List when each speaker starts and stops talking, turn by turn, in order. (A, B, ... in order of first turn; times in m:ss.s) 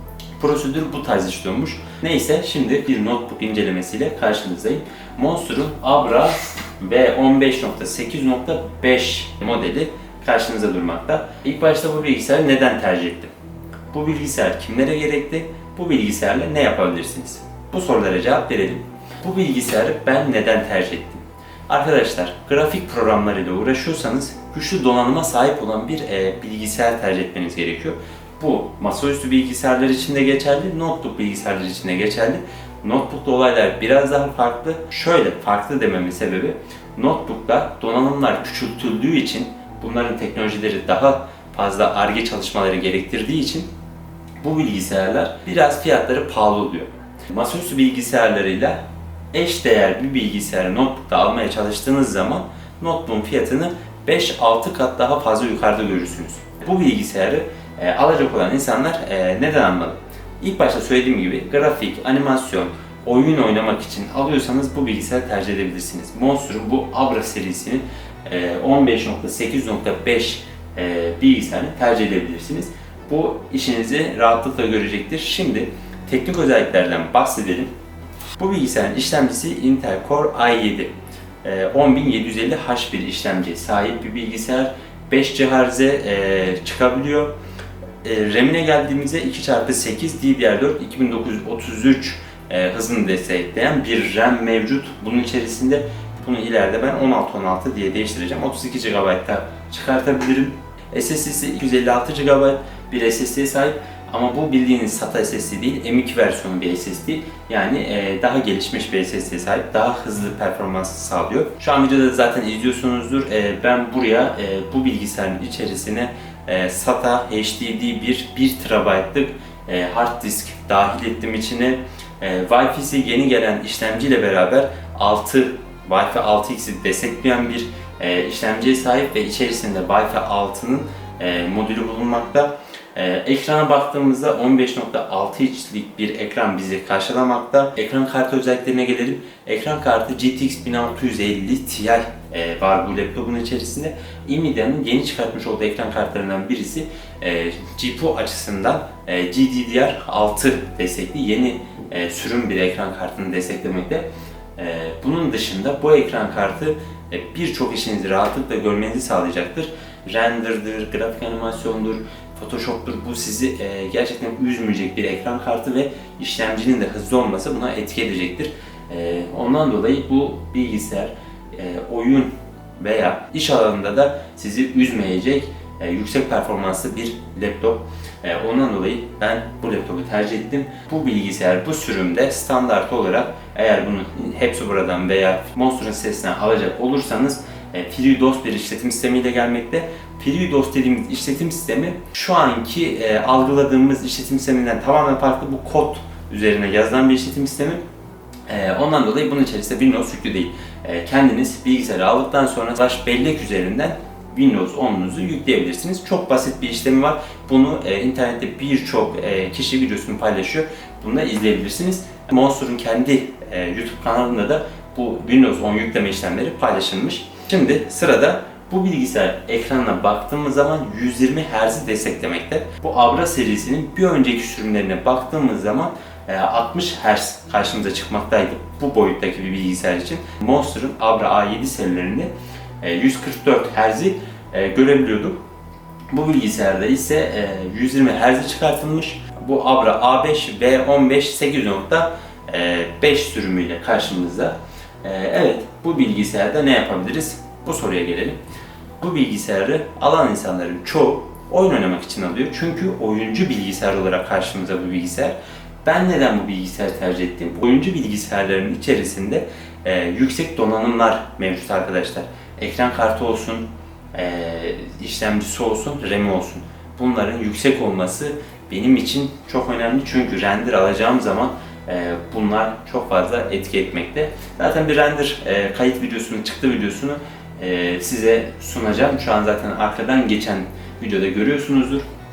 0:00.4-0:13.3 A
0:13.9-0:43.7 A
0:44.4-0:48.8 A
0:49.3-1:17.7 A
1:18.4-1:20.9 A
1:21.4-1:27.3 A
1:28.0-2:34.0 A
2:34.6-3:17.8 A
3:18.5-3:52.3 A
3:52.8-3:55.4 A
3:56.1-4:08.4 A
4:09.0-4:42.0 A